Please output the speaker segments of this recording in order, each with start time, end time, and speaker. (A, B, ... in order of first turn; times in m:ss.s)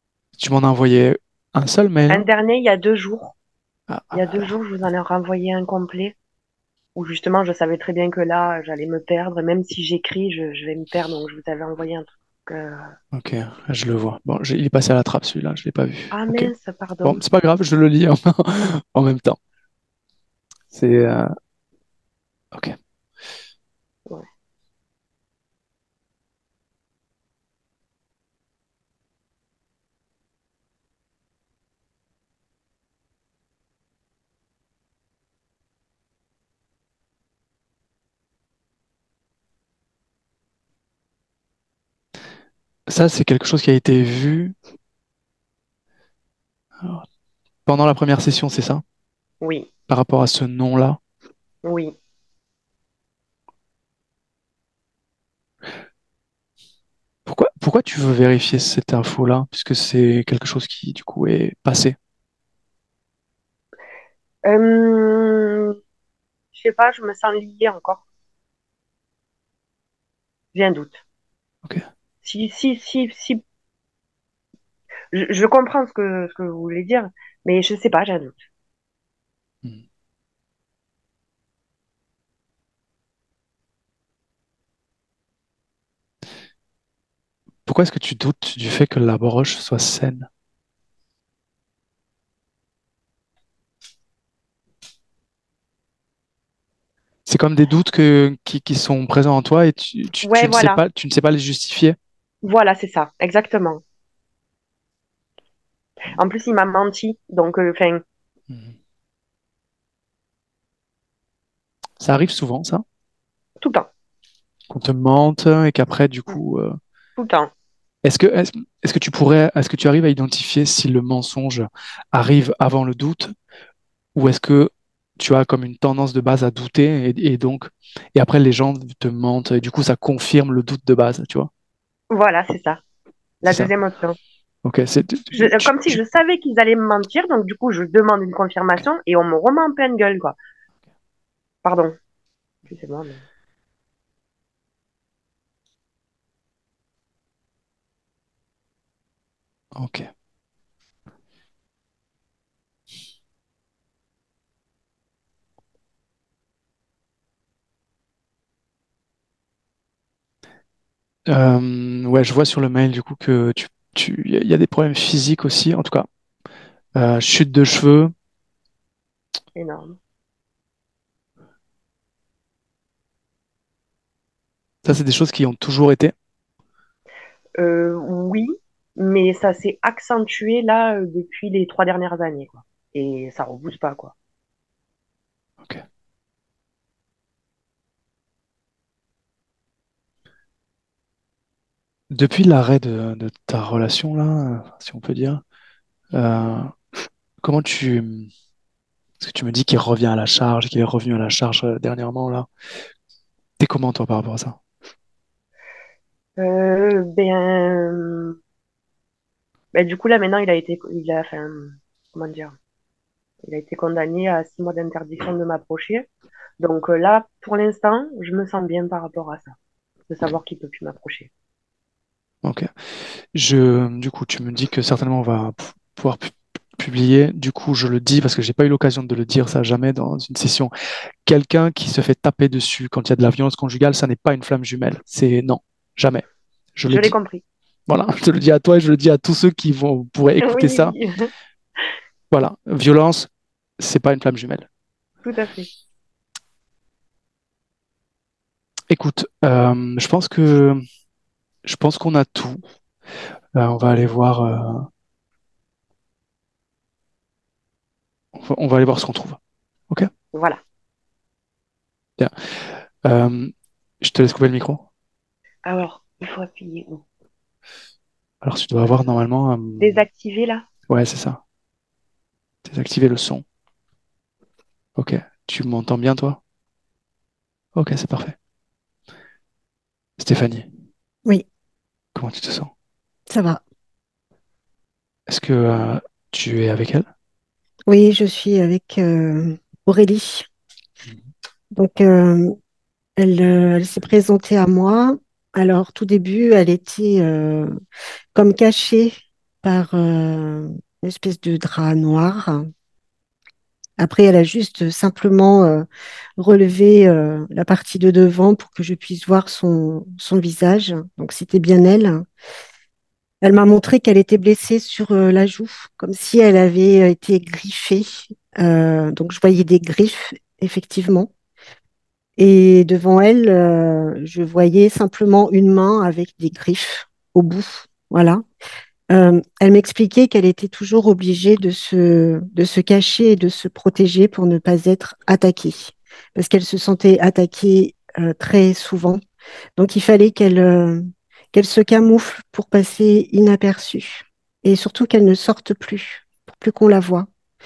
0:00.4-0:02.2 A
0:02.1-0:03.3 B
0:03.9-0:04.5 A
0:04.1-0:06.1 B
0:07.0-0:12.9 B
0:13.1-0:16.5 A
0:16.1-0:17.2 B
0:17.0-0:19.4 A
0:20.7-0:21.3 A
0:42.9-0:44.5 A
0:47.6-0:48.8 A
0:49.4-0:49.7 B
0:49.9-0:51.0 A
0:51.6-0:51.9 B
0:57.2-1:02.0 A
1:04.4-1:05.8 B
1:06.5-1:08.0 B
1:10.5-1:11.0 B
1:12.2-1:13.4 B
1:15.1-1:18.4 B
1:27.6-1:30.3 A
1:37.2-1:42.0 A
1:40.2-1:40.8 B
1:42.4-1:43.8 B
1:46.1-1:48.0 B
1:48.5-1:48.8 A
1:52.0-1:52.8 A
1:53.6-1:53.9 B
1:54.7-1:56.8 A
1:57.2-1:57.5 B
1:58.0-2:03.3 A
2:04.1-2:11.5 A
2:12.1-2:12.8 B
2:13.4-2:14.2 B
2:13.4-2:13.7 A
2:14.6-2:16.0 A
2:15.3-2:20.4 B
2:21.6-2:21.9 B
2:22.7-2:23.2 B
2:29.7-2:30.1 A
2:41.3-2:46.1 A
2:47.0-2:48.1 A
2:49.6-2:50.0 B
2:54.8-2:56.1 A
2:57.6-3:04.1 B
3:12.1-3:15.4 A
3:16.1-3:16.7 A
3:17.4-3:18.3 A
3:19.2-3:22.5 A
3:23.6-3:24.6 A
3:26.4-3:28.4 B
3:29.7-3:32.6 B
3:33.4-3:36.0 B
3:36.6-3:39.5 B
3:40.1-3:41.3 B
3:42.4-3:42.7 A
3:43.3-3:50.7 A
3:51.2-3:57.1 A
3:56.9-3:57.4 B
3:57.9-4:01.0 A
4:00.4-4:01.3 B
4:02.3-4:04.7 A
4:05.2-4:05.7 B
4:08.9-4:10.8 A
4:11.6-4:12.6 A
4:13.6-4:14.9 A
4:18.3-4:19.4 A
4:20.3-4:20.6 B
4:22.2-4:24.8 A
4:25.6-4:27.0 B
4:28.4-4:30.0 A
4:29.8-4:30.6 B
4:30.9-4:31.4 A
4:32.6-4:33.4 A
4:35.0-4:36.4 A
4:37.7-4:38.4 A
4:40.2-4:40.7 A
4:42.1-4:42.7 A
4:43.3-4:43.6 C
4:45.3-4:47.1 A
4:47.9-4:50.5 C
4:51.7-4:52.5 C
4:53.2-4:57.7 C
4:58.3-5:02.7 C
5:04.0-5:05.8 C
5:06.4-5:12.2 C
5:13.4-5:21.3 C
5:22.4-5:28.4 C
5:29.1-5:39.2 C
5:39.8-5:41.0 C
5:41.5-5:47.3 C